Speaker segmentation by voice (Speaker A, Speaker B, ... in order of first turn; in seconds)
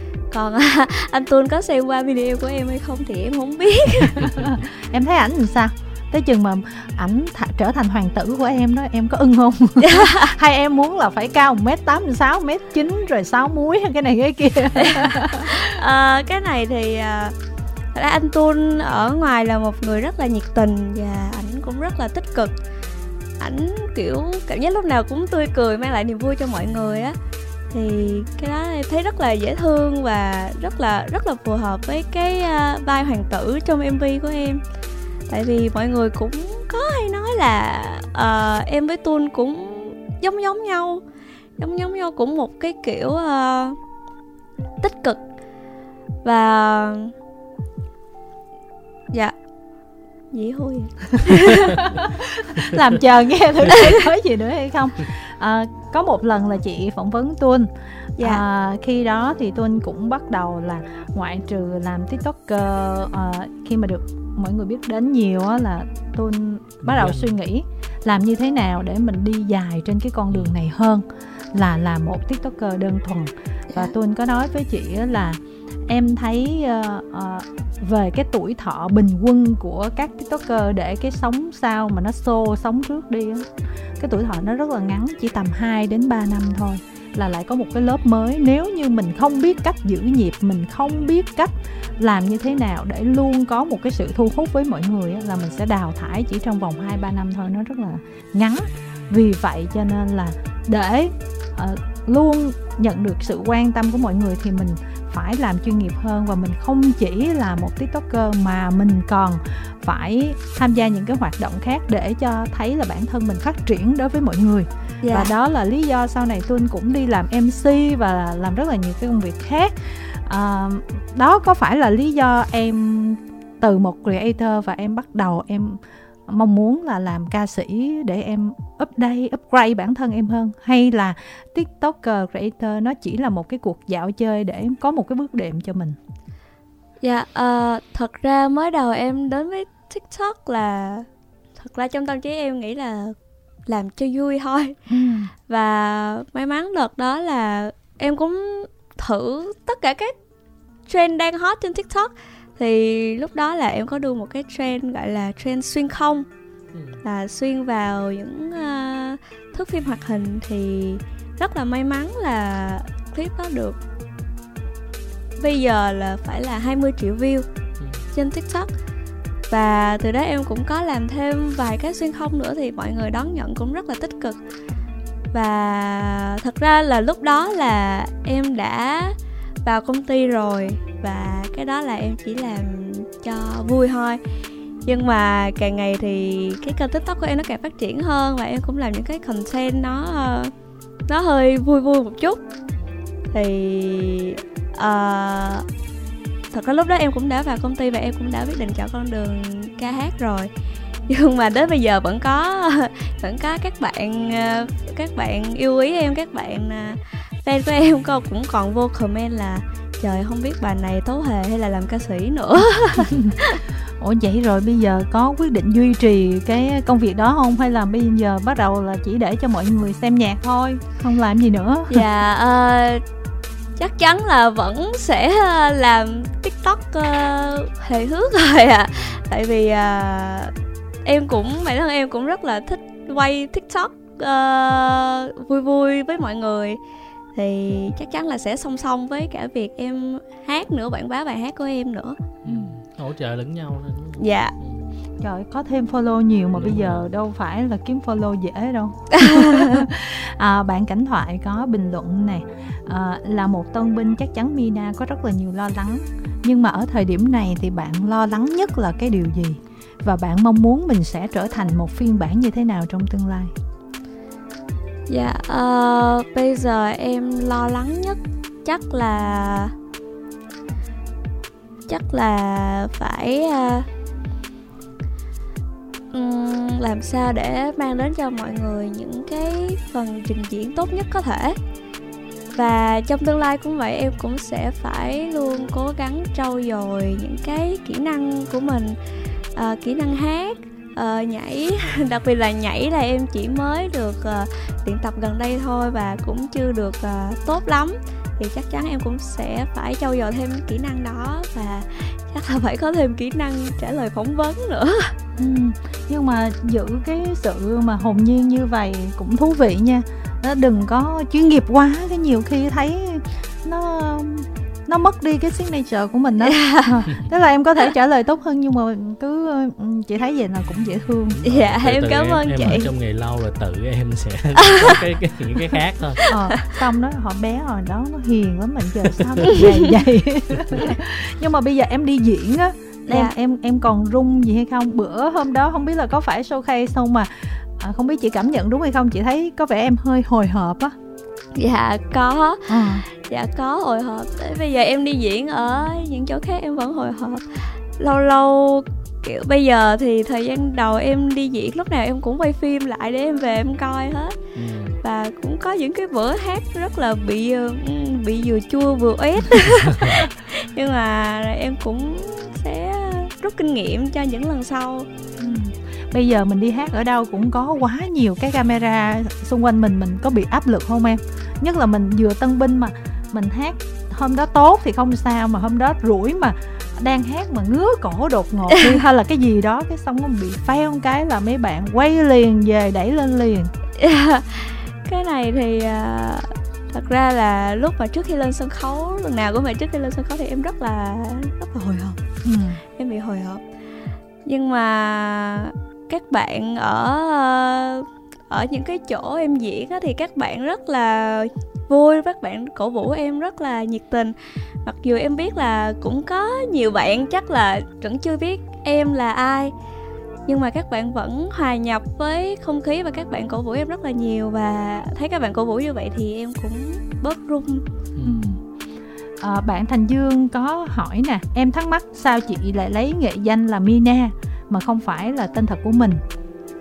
Speaker A: 0.3-4.3, 9.8-10.3, 14.8-17.3, 17.9-22.5, 23.4-27.2, 27.7-34.6, 35.3-41.0, 41.6-43.8, 44.8-45.2, 46.2-47.1, 50.3-51.8, 58.2-58.4, 115.0-115.3, 137.0-143.2, 143.7-144.8, 145.5-150.1, 150.9-156.3, 157.0-163.8, 165.4-167.4, 168.1-168.7, 169.5-174.4, 175.3-184.2, 184.8-190.5, 191.1-192.4, 193.3-195.7, 196.5-200.5, 201.1-213.6, 221.9-223.0, 223.8-230.5, 231.0-236.8, 237.3-242.2, 244.2-244.5, 249.1-249.8, 265.1-269.7, 271.9-273.9, 276.1-281.6, 282.5-289.0, 289.5-305.1, 316.4-317.0, 321.4-322.9, 324.6-324.9, 326.2-326.6, 333.1-333.3, 341.5-354.4, 355.0-365.1, 384.0-392.2, 392.9-393.6, 394.4-409.7, 410.5-417.8
Speaker B: 4.3-15.8, 51.8-136.0, 144.9-145.3, 214.0-222.0, 242.5-242.7, 245.2-263.5, 305.4-321.4, 326.3-340.9, 342.7-343.0, 365.4-383.7, 392.4-392.8, 418.2-418.6, 419.4-426.2
Speaker C: 66.8-67.3, 70.3-70.6, 156.7-157.0, 167.8-168.0, 228.9-229.2, 242.4-244.8, 246.5-247.1, 321.3-326.2, 330.6-330.8, 354.5-355.0, 418.1-418.6